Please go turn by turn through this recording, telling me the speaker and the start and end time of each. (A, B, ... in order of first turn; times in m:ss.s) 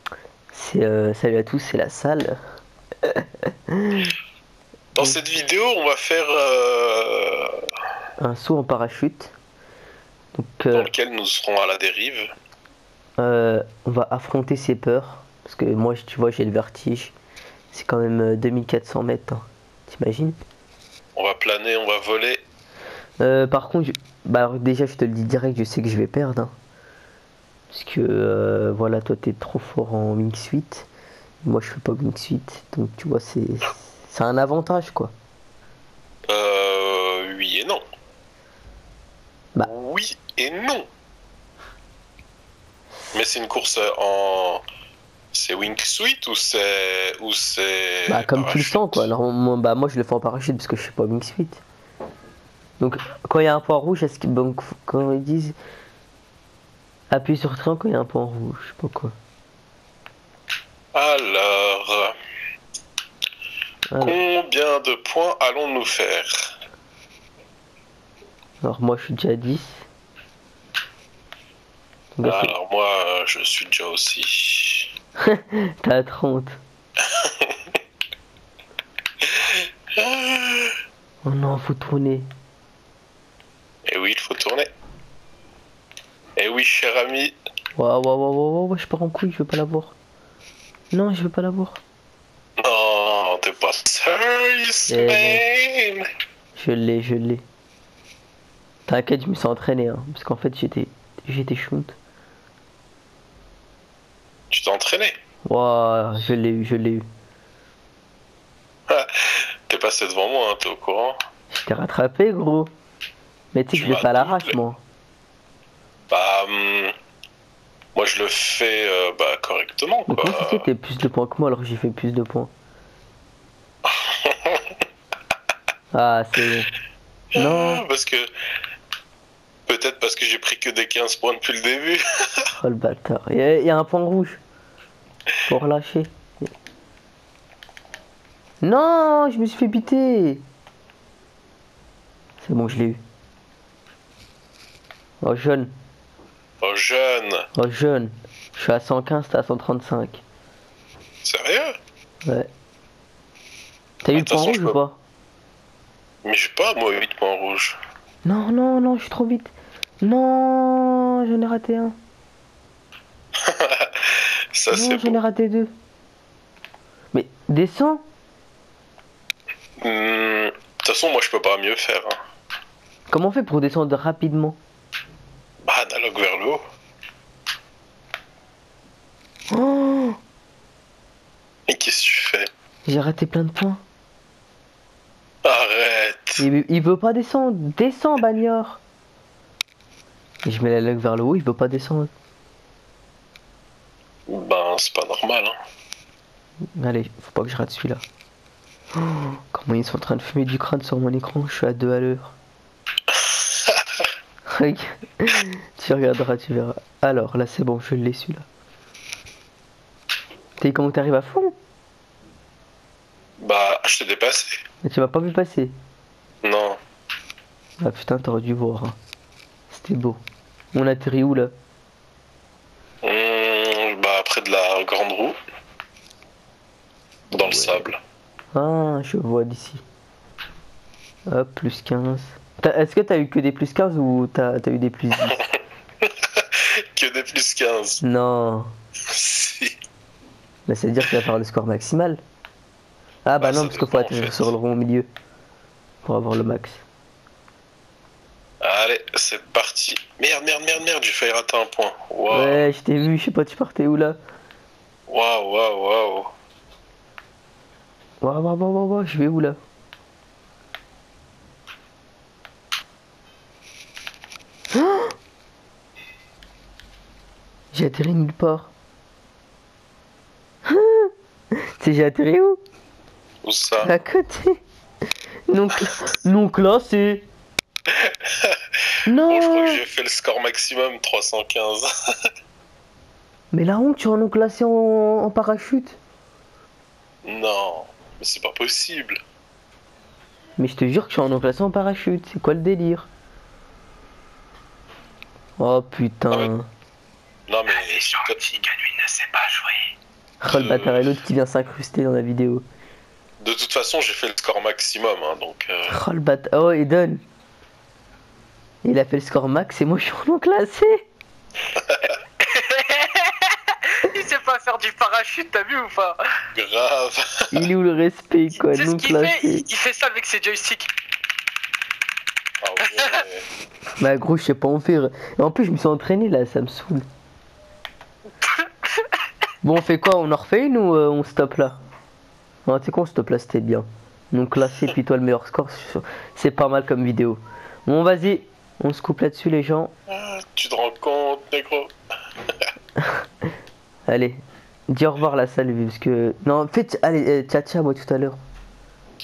0:00.5-0:02.4 A
0:03.0-0:04.1 A
0:05.0-0:07.6 B
0:08.2-0:09.3 A
0:10.3-0:10.9 A
0:10.7-0:12.2 B
0:13.2-0:17.1 A
0:17.7-0:20.4 A
0:21.1-0:22.4 B
0:23.2-0:26.5 A
0:27.7-0:30.9 A
0:31.4-0:35.1 A
0:36.3-0:37.8 B
0:39.6-0:40.8 B
0:43.1-0:44.6 B
0:45.3-0:49.1 B
0:48.1-0:51.6 A
0:52.8-0:55.6 A
0:57.1-0:59.1 A
1:00.9-1:02.1 B
1:03.9-1:04.2 A
1:04.0-1:06.5 B
1:08.6-1:09.8 A
1:12.2-1:12.5 A
1:12.2-1:14.9 B
1:15.2-1:16.6 A
1:17.0-1:17.8 B
1:19.2-1:20.7 B
1:21.2-1:22.3 A
1:23.9-1:24.7 B
1:26.4-1:27.3 B
1:27.8-1:29.9 A
1:30.9-1:31.8 A
1:32.6-1:36.1 B
1:34.9-1:35.4 A
1:36.6-1:37.4 A
1:38.9-1:41.9 A
1:44.5-1:45.1 B
1:45.5-1:47.0 A
1:48.9-1:51.2 B
1:51.5-1:52.7 A
1:53.5-1:54.8 A
1:53.7-1:54.6 B
1:56.1-1:56.9 B
1:57.9-2:00.7 B
2:00.1-2:02.5 A
2:03.8-2:04.8 B
2:05.9-2:06.7 A
2:07.4-2:07.8 A
2:07.4-2:08.3 B
2:09.7-2:12.4 B
2:12.5-2:14.4 A
2:15.5-2:16.5 A
2:18.6-2:20.4 A
2:22.4-2:23.0 A
2:25.2-2:25.7 A
2:26.6-2:27.4 B
2:27.5-2:30.2 A
2:31.2-2:31.7 B
2:34.0-2:35.0 A
2:34.1-2:34.8 B
2:36.2-2:37.8 B
2:38.2-2:39.5 A
2:40.0-2:42.0 A
2:43.4-2:45.2 B
2:44.7-2:45.7 A
2:47.1-2:48.0 A
2:49.8-2:52.2 B
2:53.1-2:54.6 A
2:55.6-2:56.6 B
2:59.5-3:00.2 A
3:01.7-3:02.5 B
3:02.8-3:03.8 A
3:05.4-3:06.4 B
3:06.4-3:08.8 A
3:10.4-3:12.1 A
3:14.3-3:15.5 B
3:16.8-3:18.0 A
3:19.0-3:22.3 A
3:23.1-3:24.1 B
3:24.5-3:28.4 A
3:30.6-3:31.5 A
3:33.4-3:34.5 B
3:34.8-3:35.7 A
3:36.4-3:36.8 B
3:37.8-3:39.0 A
3:39.7-3:40.2 A
3:40.7-3:41.5 A
3:43.0-3:45.4 B
3:47.3-3:47.8 A
3:47.3-3:48.0 B
3:48.5-3:49.8 A
3:51.3-3:55.4 A
3:55.3-3:58.0 B
3:58.0-3:58.7 A
3:59.1-3:59.7 B
4:00.7-4:02.2 A
4:03.2-4:05.1 A
4:03.4-4:04.5 B
4:06.0-4:06.8 A
4:08.6-4:12.6 B
4:12.3-4:14.2 A
4:15.1-4:16.3 B
4:18.2-4:19.6 A
4:24.7-4:25.1 A
4:27.7-4:28.7 A
4:30.6-4:31.1 A
4:31.8-4:32.6 A
4:33.4-4:33.9 B
4:33.8-4:34.6 A
4:35.5-4:37.2 A
4:37.9-4:38.8 B
4:39.0-4:39.8 A
4:39.3-4:41.8 B
4:43.5-4:46.0 A
4:47.2-4:49.2 B
4:50.6-4:53.1 A
4:55.6-4:56.7 A
4:57.5-4:58.4 B
4:57.7-4:59.8 C
5:00.4-5:02.6 A
5:00.4-5:01.1 B
5:03.4-5:06.0 B
5:05.9-5:07.2 A
5:08.8-5:11.0 A
5:11.7-5:12.2 B
5:12.4-5:13.5 C
5:14.0-5:16.2 C
5:16.5-5:17.7 B
5:17.5-5:19.6 A
5:18.6-5:20.9 C
5:22.6-5:23.4 B
5:22.8-5:23.2 C
5:24.0-5:27.0 A
5:29.6-5:31.8 A
5:32.6-5:39.9 A
5:40.1-5:41.9 B
5:44.1-5:48.4 A